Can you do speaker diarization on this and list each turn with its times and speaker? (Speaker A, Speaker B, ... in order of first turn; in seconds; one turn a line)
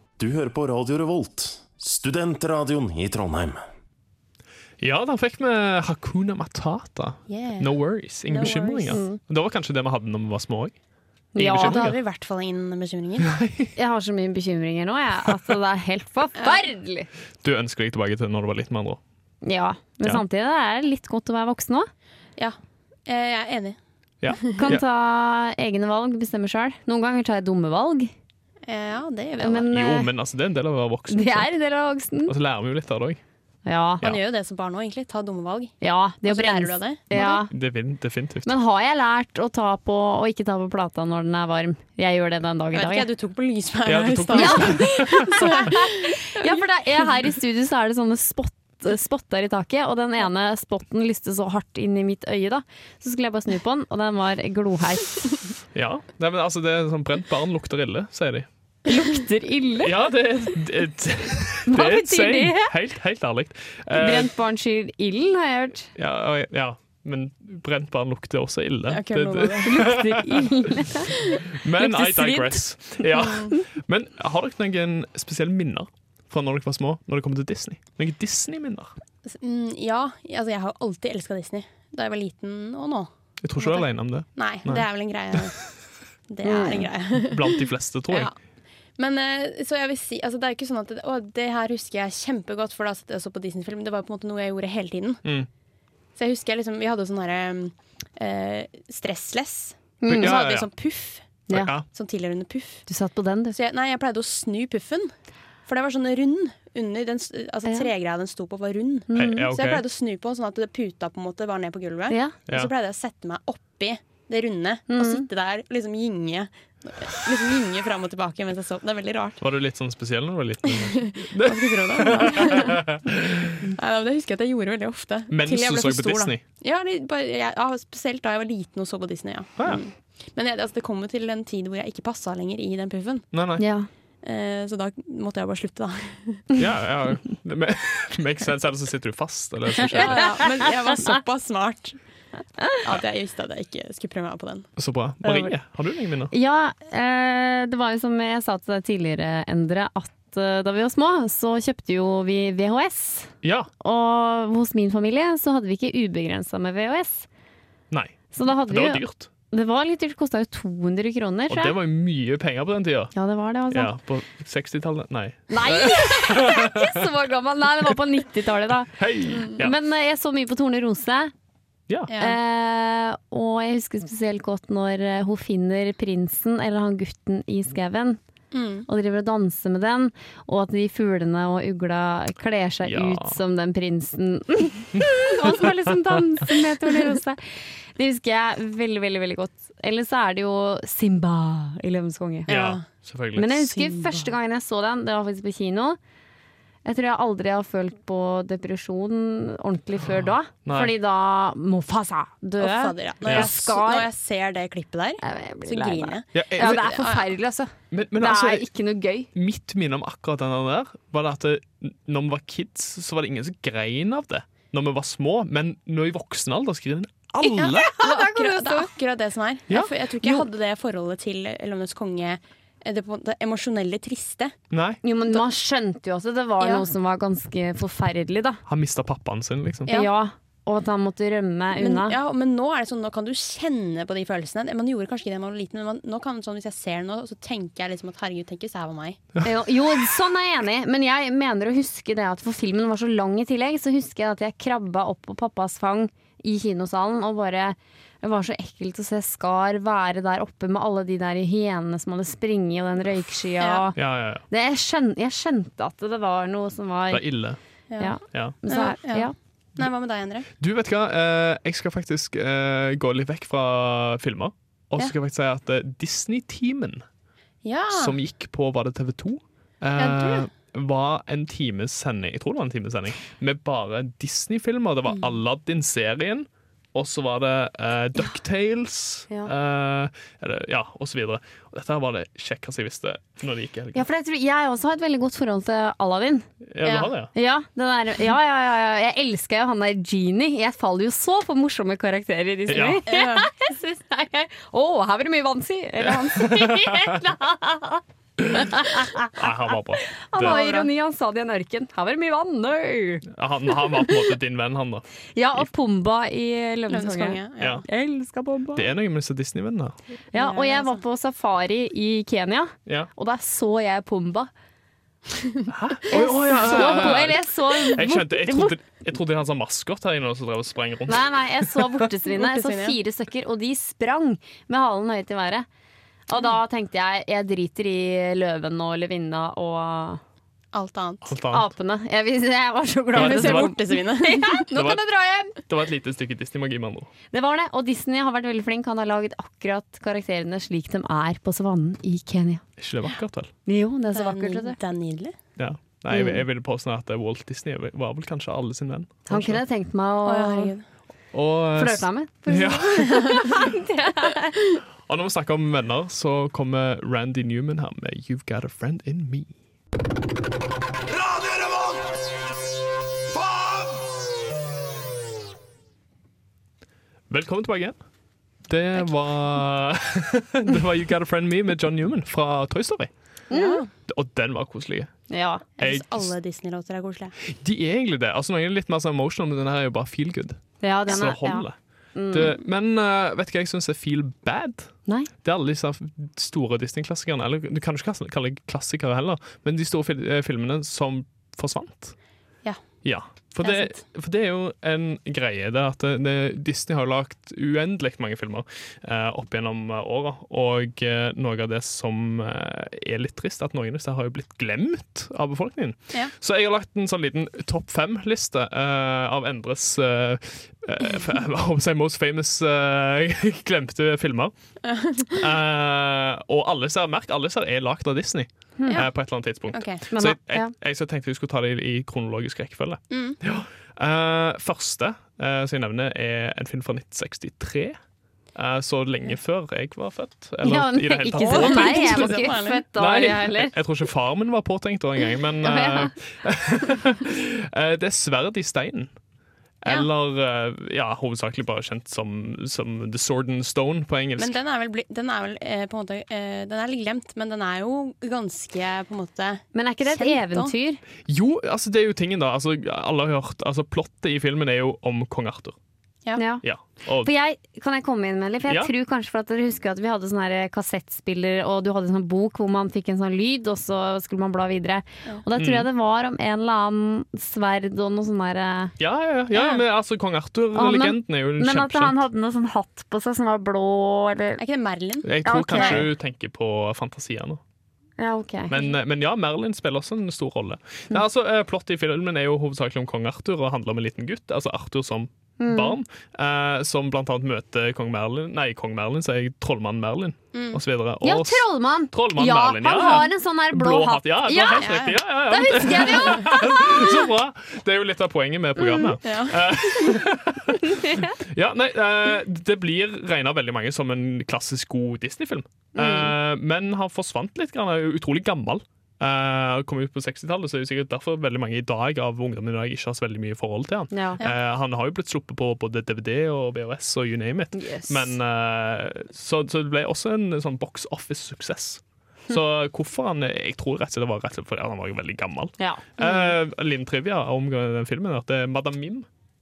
Speaker A: 0.2-3.6
Speaker B: 4.8-10.7
Speaker C: 7.3-7.7
Speaker C: 8.3-9.0
Speaker D: 8.9-9.2
Speaker D: 11.3-11.9
Speaker B: 11.3-12.0
Speaker C: 11.5-13.3
Speaker B: 13.2-13.7
Speaker D: 13.8-17.1
Speaker C: 16.4-16.6
Speaker B: 17.4-19.0
Speaker D: 19.4-21.9
Speaker C: 22.4-23.8
Speaker B: 24.2-24.8
Speaker C: 24.3-24.6
Speaker D: 24.5-28.1
Speaker C: 28.6-29.7
Speaker D: 29.4-30.1
Speaker B: 29.7-31.5
Speaker D: 31.1-32.3
Speaker B: 32.2-33.2
Speaker D: 33.6-34.0
Speaker C: 34.0-35.7
Speaker D: 35.8-37.5
Speaker C: 36.2-37.4
Speaker B: 37.1-38.5
Speaker D: 38.5-43.1
Speaker C: 42.7-46.5
Speaker B: 43.8-45.7
Speaker D: 44.3-55.3
Speaker B: 55.7-58.5
Speaker D: 58.9-60.0
Speaker B: 59.8-64.3
Speaker D: 61.7-62.7
Speaker D: 63.9-65.9
Speaker B: 65.9-70.9
Speaker C: 68.9-69.8
Speaker D: 69.6-71.1
Speaker B: 71.5-78.9
Speaker D: 71.8-72.6
Speaker C: 73.2-73.5
Speaker C: 79.2-85.7
Speaker B: 83.4-85.5
Speaker C: 86.3-88.3
Speaker D: 86.4-86.9
Speaker B: 87.2-88.3
Speaker C: 89.0-95.2
Speaker C: 96.2-102.9
Speaker D: 100.0-100.4
Speaker B: 100.1-100.7
Speaker B: 101.5-101.8
Speaker D: 102.9-103.5
Speaker C: 103.5-105.1
Speaker C: 105.7-119.4
Speaker D: 109.1-109.5
Speaker B: 109.1-109.8
Speaker D: 112.1-112.3
Speaker D: 114.9-115.2
Speaker B: 119.4-123.6
Speaker C: 120.7-122.9
Speaker C: 123.7-133.2
Speaker B: 125.3-126.4
Speaker B: 133.3-133.7
Speaker D: 133.6-133.9
Speaker C: 134.2-136.4
Speaker B: 136.6-140.4
Speaker C: 139.8-142.0
Speaker C: 142.8-144.7
Speaker B: 144.8-146.3
Speaker D: 145.2-145.5
Speaker D: 146.3-157.3
Speaker B: 153.4-153.7
Speaker B: 157.9-159.3
Speaker D: 158.3-161.8
Speaker B: 161.5-163.1
Speaker D: 163.1-163.9
Speaker B: 163.7-167.1
Speaker D: 165.5-168.9
Speaker B: 168.9-169.7
Speaker C: 169.3-169.6
Speaker D: 169.5-171.3
Speaker C: 172.1-172.4
Speaker D: 172.2-178.2
Speaker C: 178.5-178.9
Speaker D: 178.9-192.5
Speaker B: 182.8-183.4
Speaker B: 184.9-186.2
Speaker C: 192.5-192.8
Speaker B: 192.5-193.7
Speaker D: 193.3-196.0
Speaker C: 193.8-194.2
Speaker D: 196.8-204.1
Speaker B: 200.6-200.9
Speaker C: 202.6-207.3
Speaker B: 203.2-203.5
Speaker D: 205.2-209.3
Speaker B: 206.3-206.9
Speaker B: 207.9-208.7
Speaker B: 209.3-217.8
Speaker D: 217.4-218.9
Speaker C: 217.6-224.6
Speaker B: 219.7-220.4
Speaker B: 224.7-225.0
Speaker D: 225.0-228.6
Speaker B: 228.7-229.9
Speaker C: 229.8-230.1
Speaker D: 229.9-232.2
Speaker C: 231.8-239.2
Speaker D: 239.4-254.0
Speaker C: 253.6-253.8
Speaker B: 253.9-254.4
Speaker D: 254.5-257.2
Speaker B: 257.1-257.6
Speaker C: 257.9-258.1
Speaker D: 258.0-259.3
Speaker C: 258.7-260.5
Speaker B: 260.6-267.0
Speaker C: 267.6-268.1
Speaker B: 267.9-284.0
Speaker C: 270.0-270.5
Speaker C: 275.1-275.4
Speaker D: 283.9-286.4
Speaker B: 286.7-287.3
Speaker C: 286.8-287.1
Speaker D: 287.3-298.0
Speaker B: 292.7-293.0
Speaker C: 293.1-293.5
Speaker B: 296.0-297.2
Speaker B: 298.4-300.6
Speaker D: 298.5-299.4
Speaker D: 300.1-303.2
Speaker C: 300.4-300.9
Speaker B: 303.3-305.0
Speaker D: 305.4-308.9
Speaker C: 306.9-307.8
Speaker B: 307.6-307.8
Speaker B: 308.7-310.0
Speaker D: 310.3-314.5
Speaker C: 310.3-311.0
Speaker B: 315.7-322.0
Speaker D: 316.1-318.8
Speaker D: 321.1-325.6
Speaker C: 322.3-322.9
Speaker D: 326.3-330.2
Speaker C: 330.7-331.3
Speaker B: 331.2-331.7
Speaker D: 331.5-335.6
Speaker C: 333.1-334.6
Speaker B: 333.1-333.7
Speaker B: 334.7-335.0
Speaker B: 335.6-337.1
Speaker D: 337.3-342.6
Speaker B: 342.8-343.5
Speaker D: 343.6-344.8
Speaker C: 344.1-345.3
Speaker B: 345.6-349.6
Speaker D: 346.1-346.4
Speaker D: 349.3-350.7
Speaker C: 350.2-350.8
Speaker B: 351.3-353.4
Speaker D: 351.8-354.6
Speaker B: 355.1-359.5
Speaker B: 367.3-368.0
Speaker B: 368.7-373.1
Speaker D: 373.5-373.8
Speaker C: 373.5-373.9
Speaker B: 374.1-375.1
Speaker D: 375.3-375.6
Speaker C: 375.8-377.4
Speaker B: 375.8-376.3
Speaker B: 377.5-381.8
Speaker D: 380.8-382.6
Speaker B: 382.3-384.9
Speaker B: 385.4-392.1
Speaker B: 393.0-414.5
Speaker C: 393.6-394.0
Speaker C: 414.8-415.4
Speaker B: 415.3-428.0
Speaker D: 418.8-419.0
Speaker C: 419.7-420.0
Speaker D: 420.1-420.7
Speaker C: 423.1-423.4
Speaker B: 428.5-439.1
Speaker D: 430.6-433.7
Speaker C: 431.4-432.8
Speaker D: 435.6-436.1
Speaker B: 439.8-444.6
Speaker C: 444.4-450.7
Speaker D: 449.7-451.0
Speaker B: 451.3-455.8
Speaker D: 456.4-456.6
Speaker B: 456.6-457.3
Speaker D: 457.2-468.9
Speaker B: 458.7-458.9
Speaker B: 465.6-465.9
Speaker B: 469.0-472.2
Speaker D: 470.7-474.6
Speaker C: 474.6-476.0
Speaker B: 475.2-477.6
Speaker D: 475.4-476.1
Speaker D: 478.2-478.8
Speaker B: 478.7-529.3
Speaker D: 485.6-486.0
Speaker C: 490.5-490.8
Speaker D: 491.2-497.2
Speaker C: 494.8-495.2
Speaker D: 498.8-499.1
Speaker C: 499.2-500.1
Speaker D: 500.9-501.4
Speaker D: 505.9-506.4
Speaker D: 514.1-514.4
Speaker D: 517.7-518.4
Speaker D: 525.8-526.5